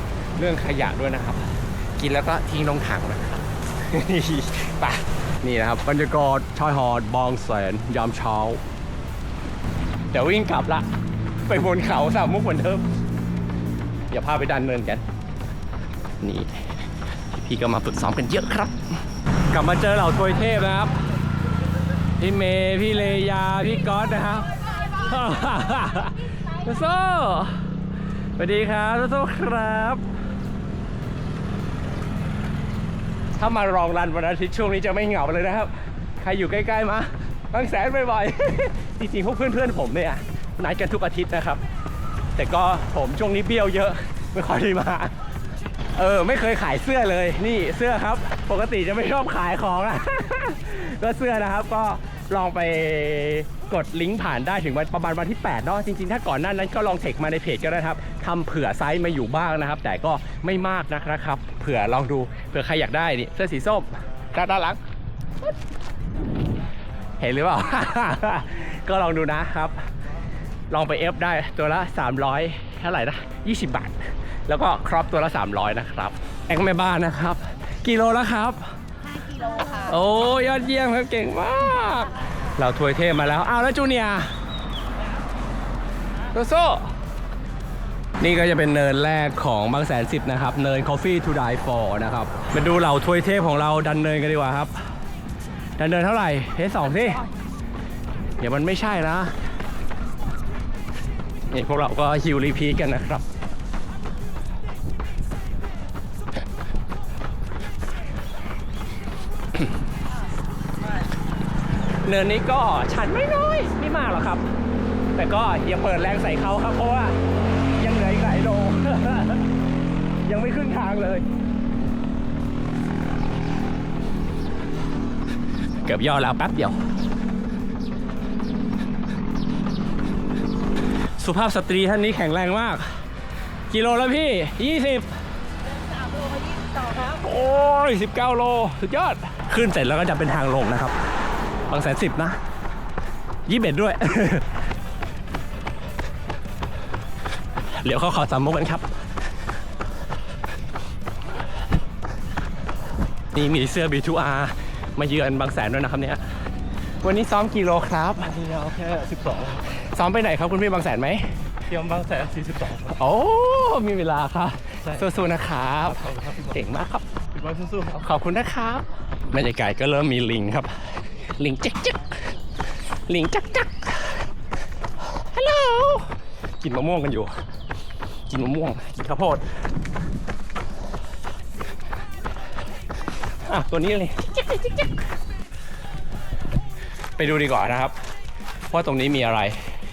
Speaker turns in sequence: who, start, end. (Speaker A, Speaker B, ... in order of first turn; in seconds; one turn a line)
Speaker A: 0.3-8.6
Speaker A: 10.1-10.9
Speaker A: 11.4-12.8
Speaker A: 14.1-15.0
Speaker A: 16.2-16.8
Speaker A: 17.3-18.8
Speaker A: 19.5-21.0
Speaker A: 22.2-27.7
Speaker A: 28.4-30.0
Speaker A: 33.3-41.6
Speaker A: 42.4-45.1
Speaker A: 46.0-64.8
Speaker A: 67.2-69.8
Speaker A: 70.7-78.7
Speaker B: 79.2-79.9
Speaker A: 79.8-84.3
Speaker A: 86.3-86.9
Speaker A: 88.2-94.7
Speaker A: 95.8-97.2
Speaker A: 98.4-99.3
Speaker A: 101.5-103.2
Speaker A: 112.0-114.5
Speaker A: 115.1-117.2
Speaker A: 117.8-119.5
Speaker A: 120.2-121.2
Speaker A: 125.8-126.8
Speaker A: 131.2-133.0
Speaker A: 133.7-135.1
Speaker B: 135.7-137.1
Speaker A: 136.9-140.9
Speaker A: 141.7-142.4
Speaker A: 143.4-144.5
Speaker A: 147.7-148.9
Speaker A: 153.3-156.2
Speaker A: 157.0-158.3
Speaker C: 158.3-159.6
Speaker A: 159.7-161.5
Speaker C: 161.7-162.9
Speaker A: 162.8-167.0
Speaker C: 166.0-166.4
Speaker C: 167.3-168.0
Speaker A: 167.9-172.2
Speaker A: 173.1-174.3
Speaker A: 175.1-177.3
Speaker A: 178.3-179.4
Speaker A: 183.4-184.9
Speaker A: 187.2-187.9
Speaker A: 188.7-189.8